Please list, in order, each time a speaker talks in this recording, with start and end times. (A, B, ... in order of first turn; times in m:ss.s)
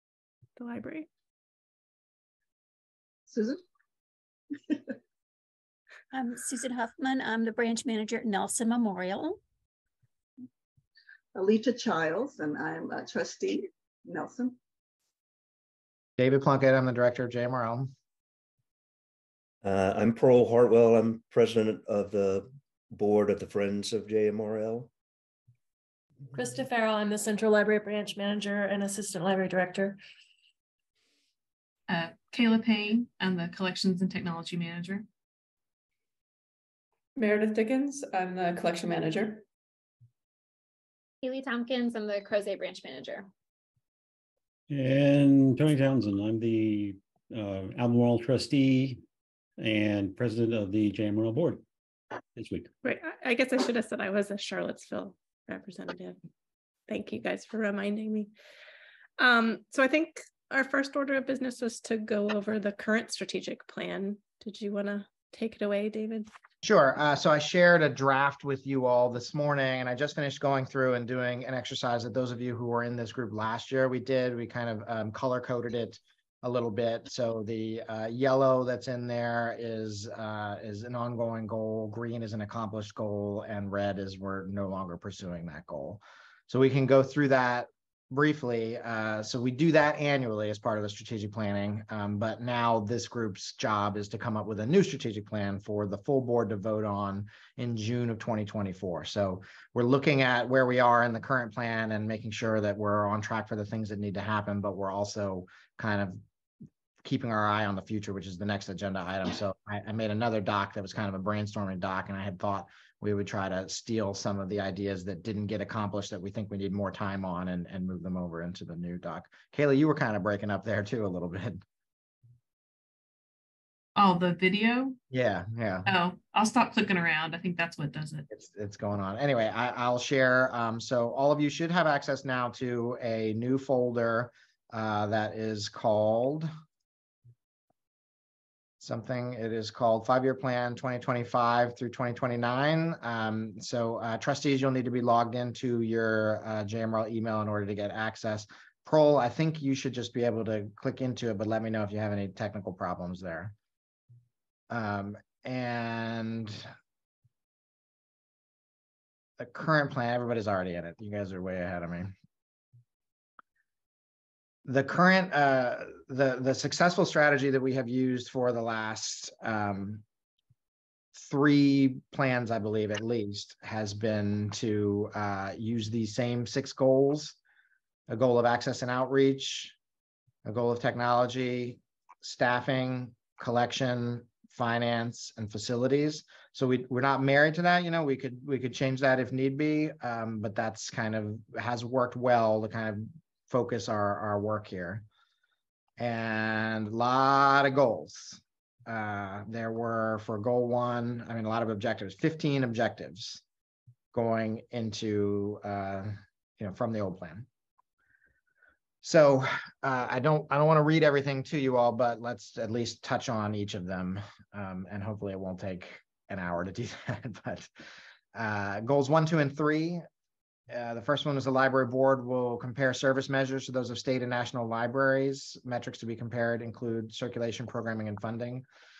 0:00.6-0:01.1 A
0:03.3-0:03.6 B
0:06.1-0:09.4 C
0:11.4-0:14.6 B
0:16.2-0:17.9 D
0:19.6-0:24.9 E
0:26.4-0:30.0 F
0:31.9-0:35.1 G
0:37.2-0:39.4 H
0:41.2-0:43.3 I
0:44.7-0:49.0 J
0:49.6-0:51.6 J
0:52.4-0:52.7 J
0:52.8-0:56.2 A
0:56.9-0:58.3 A
0:59.2-1:06.3 A
1:06.6-1:46.2 D
1:47.0-2:01.6 D
2:04.0-2:05.0 G
2:05.1-2:05.9 D
2:05.9-2:08.3 G
2:08.3-2:16.5 D
2:18.8-2:33.5 D
2:34.7-2:36.7 D
2:39.4-2:42.1 D
2:44.6-2:50.0 D
2:51.1-2:57.4 D
2:58.1-2:59.8 D
3:00.4-3:15.0 D
3:16.0-3:23.4 D
3:24.1-3:27.5 D
3:29.0-3:37.7 D
3:38.4-3:40.0 D
3:40.7-3:48.6 D